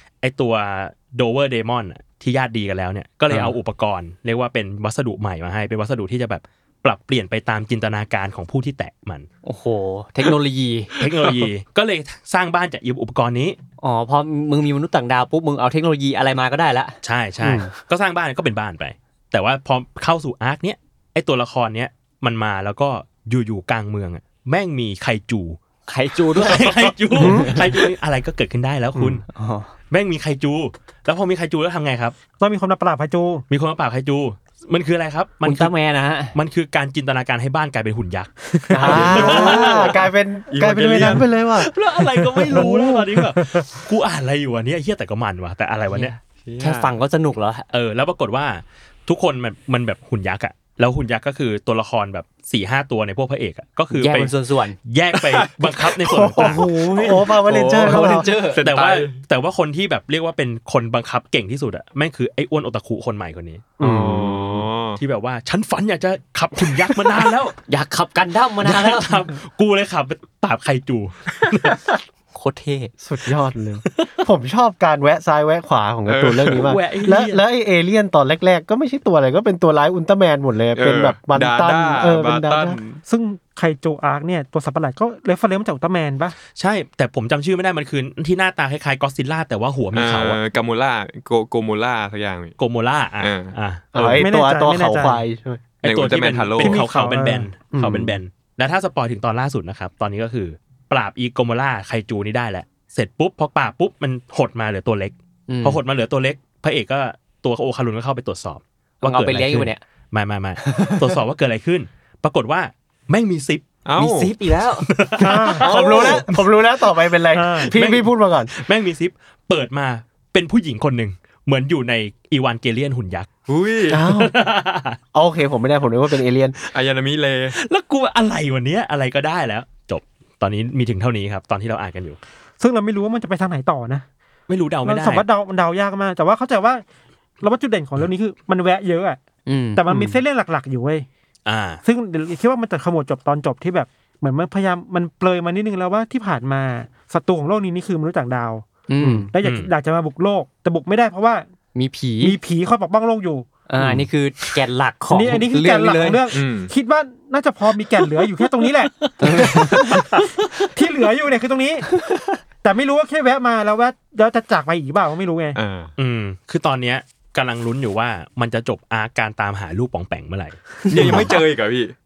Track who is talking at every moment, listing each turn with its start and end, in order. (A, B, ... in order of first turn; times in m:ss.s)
0:00.2-0:09.3 A
0:09.4-0:10.9 B
0:11.0-0:13.6 A
0:13.8-0:17.0 B
0:17.0-0:25.6 A
0:17.4-0:17.7 C
0:25.9-0:27.9 B
0:26.3-0:29.2 A
0:27.2-0:27.6 C
0:29.0-0:29.2 C
0:29.3-0:29.7 B
0:29.9-0:32.2 A
0:32.4-0:33.4 D
0:33.5-0:35.7 A
0:35.4-0:36.4 B
0:36.3-0:40.0 A
0:38.7-0:41.7 C
0:38.8-0:41.3 E
0:38.9-0:39.4 B
0:41.0-0:46.1 A
0:42.2-0:43.7 D
0:45.9-0:47.6 B
0:46.4-0:47.0 E
0:47.7-0:57.2 A
0:53.9-0:54.8 B
0:55.1-0:59.2 E
0:56.0-0:58.3 C
0:57.7-0:58.7 B
0:58.6-1:03.7 A
1:03.8-1:04.7 C
1:03.8-1:05.0 E
1:05.0-1:07.6 A
1:07.7-1:09.3 B
1:08.6-1:12.0 A
1:12.3-1:12.9 B
1:13.0-1:22.8 C
1:16.1-1:16.7 E
1:16.6-1:17.4 A
1:20.8-1:23.0 E
1:23.1-1:26.4 D
1:26.6-1:30.4 A
1:29.9-1:32.6 E
1:32.6-1:34.2 A
1:33.2-1:33.6 E
1:33.9-1:35.6 C
1:34.2-1:35.2 D
1:35.8-1:53.6 A
1:35.8-1:36.8 E
1:36.6-1:37.5 D
1:37.7-1:38.2 C
1:45.5-1:45.8 B
1:49.0-1:49.8 B
1:50.6-1:51.2 B
1:53.8-1:54.3 E
1:54.0-1:54.9 B
1:54.9-1:56.5 A
1:55.2-1:55.7 D
1:55.5-1:58.5 C
1:57.3-1:57.8 D
1:57.7-2:03.3 A
2:03.5-2:04.0 E
2:03.9-2:04.3 C
2:03.9-2:05.0 A
2:05.1-2:06.6 C
2:06.7-2:07.6 E
2:07.5-2:12.2 A
2:12.6-2:14.0 D
2:14.5-2:15.3 A
2:14.8-2:16.8 D
2:17.4-2:19.2 D
2:19.5-2:19.8 B
2:19.8-2:21.1 D
2:19.9-2:20.2 C
2:21.5-2:21.8 A
2:21.8-2:28.7 D
2:28.9-2:29.3 B
2:29.0-2:29.3 C
2:29.3-2:31.5 D
2:29.4-2:29.7 A
2:31.7-2:32.4 B
2:32.2-2:33.5 D
2:33.7-2:36.2 B
2:33.8-2:34.1 C
2:35.1-2:41.9 D
2:36.3-2:36.7 E
2:37.8-2:40.7 A
2:39.2-2:39.9 B
2:42.6-2:45.6 D
2:45.6-2:45.9 E
2:46.0-2:51.3 A
2:50.9-2:51.3 B
2:50.9-2:51.9 E